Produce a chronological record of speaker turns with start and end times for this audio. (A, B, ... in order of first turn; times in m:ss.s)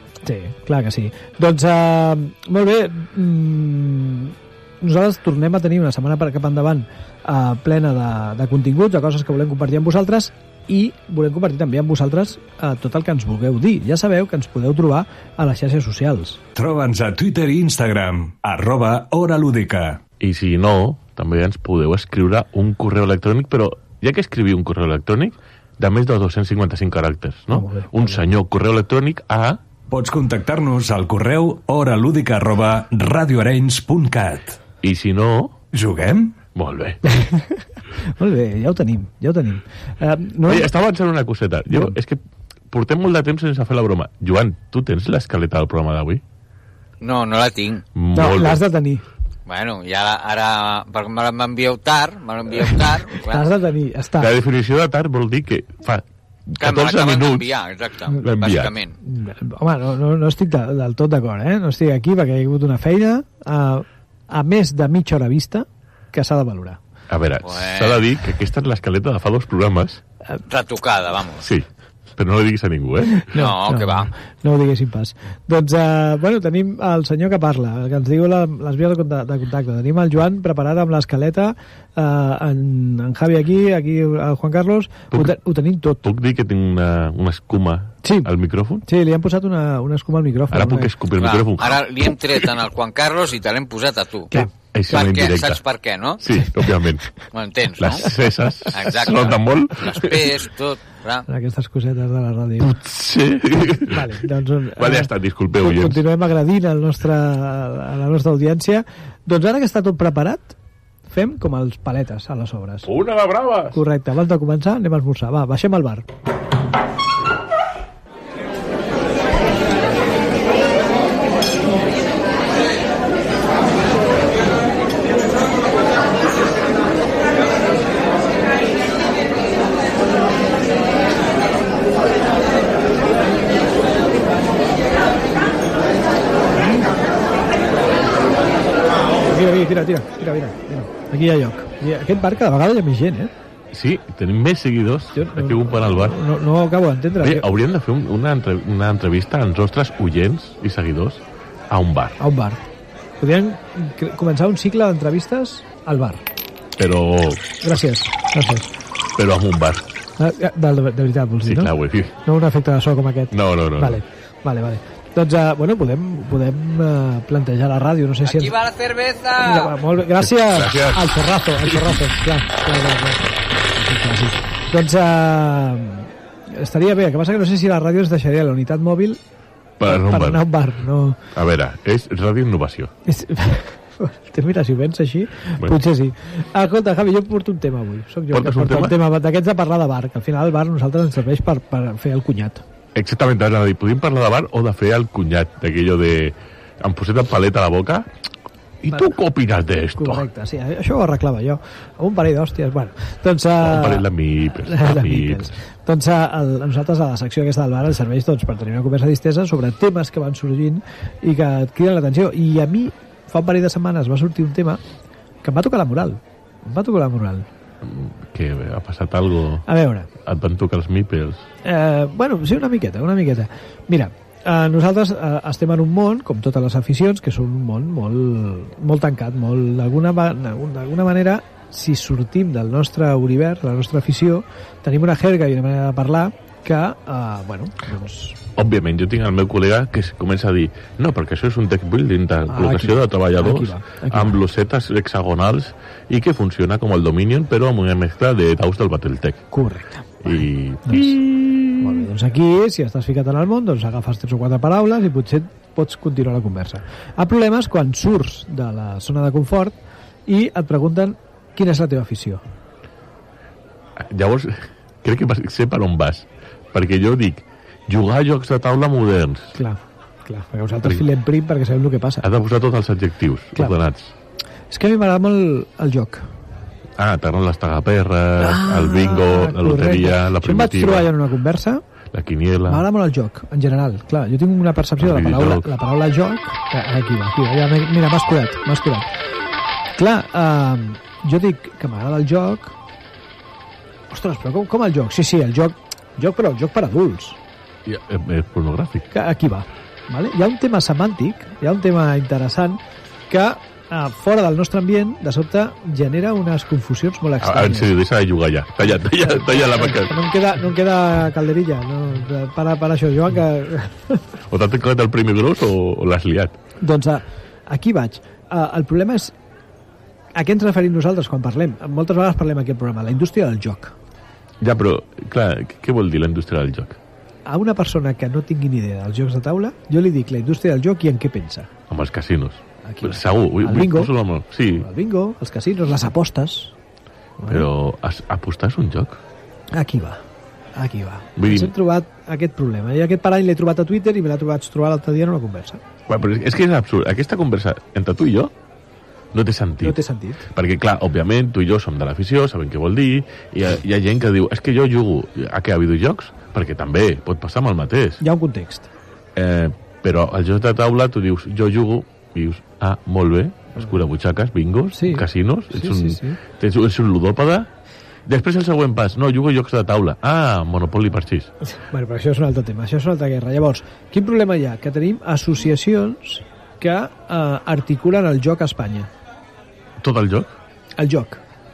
0:00.2-0:16.4 A
0:16.5-0:20.0 B
0:20.2-0:29.6 C
0:27.5-0:28.2 A
0:29.9-0:34.6 B
0:34.8-0:35.6 C
0:35.7-0:36.4 B
0:36.5-0:37.0 C
0:37.1-0:37.6 A
0:38.2-0:40.7 A
0:40.4-0:46.2 C
0:47.0-0:47.8 D
0:47.9-0:48.6 C
0:48.1-0:49.0 A
0:49.4-0:53.5 D
0:53.2-0:54.3 A
0:54.2-0:57.5 C
0:56.6-0:59.0 D
0:58.2-0:58.7 C
0:59.0-1:06.8 A
1:07.1-1:10.0 C
1:07.4-1:08.0 D
1:10.5-1:11.5 D
1:11.4-1:13.3 C
1:13.1-1:26.0 A
1:13.3-1:14.1 D
1:25.1-1:25.4 C
1:26.0-1:28.8 C
1:28.0-1:28.3 A
1:28.8-1:30.9 A
1:30.5-1:32.1 C
1:31.2-1:34.4 D
1:34.3-1:35.6 C
1:34.9-1:36.4 D
1:36.2-1:37.1 C
1:37.3-1:41.2 D
1:37.8-1:40.3 C
1:41.3-1:42.7 A
1:42.6-1:46.0 C
1:43.8-1:50.5 A
1:51.1-1:52.9 A
1:52.8-1:53.8 C
1:53.7-1:56.0 A
2:19.2-2:23.3 A
2:23.7-2:26.2 C
2:25.2-2:27.4 A
2:27.2-2:32.2 C
2:32.2-2:32.6 A
2:33.2-2:36.2 A
2:36.8-2:37.6 C
2:37.6-2:38.7 A
2:39.2-2:39.8 C
2:40.2-2:41.7 A
2:41.4-2:42.2 C
2:42.2-2:48.6 A
2:43.3-2:44.0 C
2:48.2-2:49.7 D
2:49.4-2:59.2 A
2:50.1-2:51.1 C
2:51.6-2:52.0 C
2:59.8-3:00.5 C
2:59.8-3:01.2 A
3:01.3-3:02.9 C
3:03.1-3:12.6 A
3:08.3-3:09.0 C
3:12.9-3:18.1 C
3:18.8-3:20.2 C
3:20.0-3:24.0 A
3:23.6-3:25.5 C
3:24.6-3:34.8 A
3:35.4-3:37.5 A
3:37.8-3:39.6 C
3:39.7-3:40.1 A
3:40.2-3:41.5 C
3:41.6-3:58.4 A
3:58.6-4:09.4 C
4:02.5-4:04.4 A
4:09.5-4:11.2 A
4:10.2-4:12.1 C
4:11.8-4:22.4 A
4:24.0-4:29.6 C
4:29.6-4:32.3 A
4:32.2-4:34.1 C
4:34.7-4:36.3 A
4:37.0-4:41.1 C
4:38.4-4:41.8 A
4:42.1-4:42.8 C
4:42.7-4:49.1 A
4:45.0-4:45.7 C
4:50.0-4:52.7 A
4:54.1-4:57.4 A
4:57.8-4:59.1 C
4:59.1-5:07.9 A
5:07.4-5:10.2 C
5:09.0-5:14.3 A
5:14.5-5:16.6 C
5:16.8-5:19.3 A
5:20.3-5:23.9 A
5:24.6-5:27.0 C
5:27.4-5:31.7 A
5:31.9-5:34.9 C
5:32.8-5:34.1 A
5:34.8-5:36.7 A
5:37.4-5:37.7 A
5:37.4-5:39.2 C
5:39.7-5:40.2 A
5:40.7-5:45.8 A
5:41.4-5:41.7 C
5:46.1-5:48.5 C
5:49.3-5:58.2 C
5:49.8-5:50.4 A
5:58.2-5:58.9 A
5:59.3-6:07.7 C
6:04.9-6:06.4 A
6:08.3-6:11.5 C
6:11.7-6:19.1 A
6:20.0-6:20.5 C
6:21.0-6:21.4 A